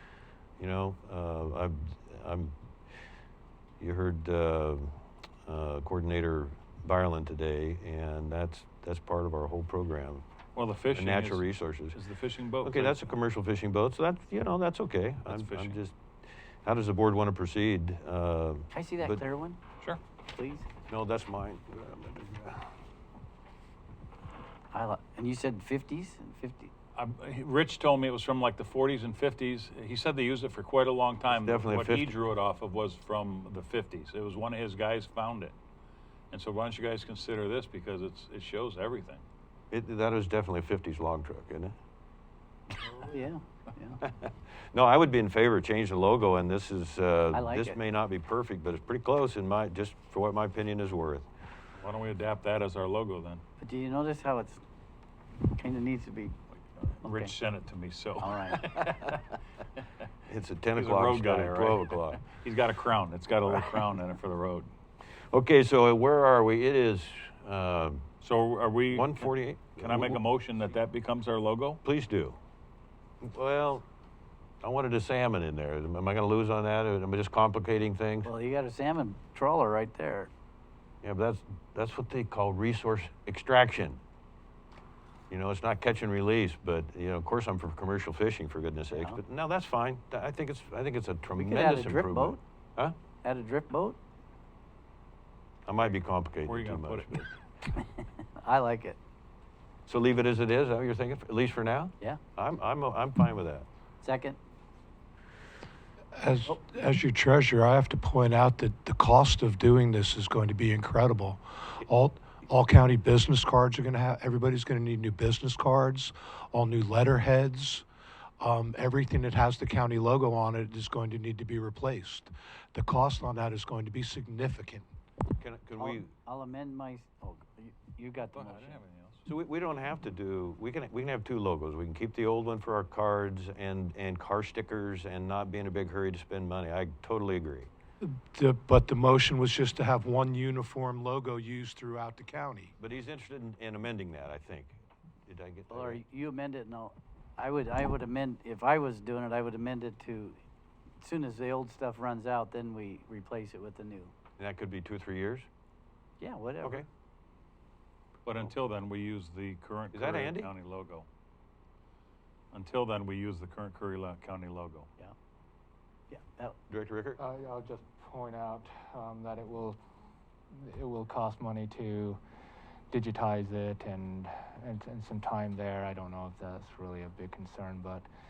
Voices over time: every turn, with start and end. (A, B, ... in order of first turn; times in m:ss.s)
0:00.6-0:02.6 A
0:03.8-0:10.2 A
0:10.6-0:13.2 B
0:10.9-0:12.0 A
0:12.6-0:16.0 A
0:15.3-0:15.8 B
0:16.6-0:19.2 A
0:18.7-0:19.6 C
0:20.3-0:20.7 C
0:20.9-0:22.7 A
0:24.7-0:26.7 C
0:27.0-0:35.6 B
0:31.3-0:32.2 A
0:36.3-0:39.2 B
0:39.7-0:41.8 A
0:43.1-0:44.0 C
0:44.0-0:51.3 A
0:47.3-0:47.8 C
0:51.8-0:53.4 B
0:53.6-0:54.6 C
0:55.5-0:56.4 C
0:56.8-0:59.2 B
0:57.0-0:57.3 C
0:58.2-0:58.6 C
1:00.3-1:02.2 A
1:00.8-1:04.7 B
1:05.3-1:08.1 A
1:08.2-1:11.8 B
1:08.9-1:10.2 A
1:11.8-1:12.4 A
1:13.2-1:13.8 A
1:14.6-1:18.3 A
1:18.2-1:20.3 C
1:21.0-1:24.0 A
1:25.3-1:33.0 A
1:31.4-1:32.4 C
1:33.2-1:34.0 C
1:35.7-1:37.3 A
1:36.4-1:37.3 B
1:38.4-1:39.0 C
1:39.9-1:43.7 A
1:44.0-1:44.4 C
1:46.2-1:57.9 D
1:58.4-2:04.9 D
2:05.4-2:06.1 A
2:05.8-2:08.8 C
2:08.3-2:09.2 B
2:09.3-2:17.7 A
2:18.0-2:22.7 D
2:22.8-2:26.0 A
2:25.7-2:30.4 C
2:31.0-2:34.1 C
2:34.4-2:35.5 A
2:36.2-2:36.8 C
2:38.2-2:41.1 B
2:39.9-2:40.5 A
2:42.5-2:44.9 B
2:46.1-2:46.6 C
2:46.7-2:47.2 A
2:47.2-2:49.8 E
2:50.5-2:52.2 E
2:52.9-2:58.1 E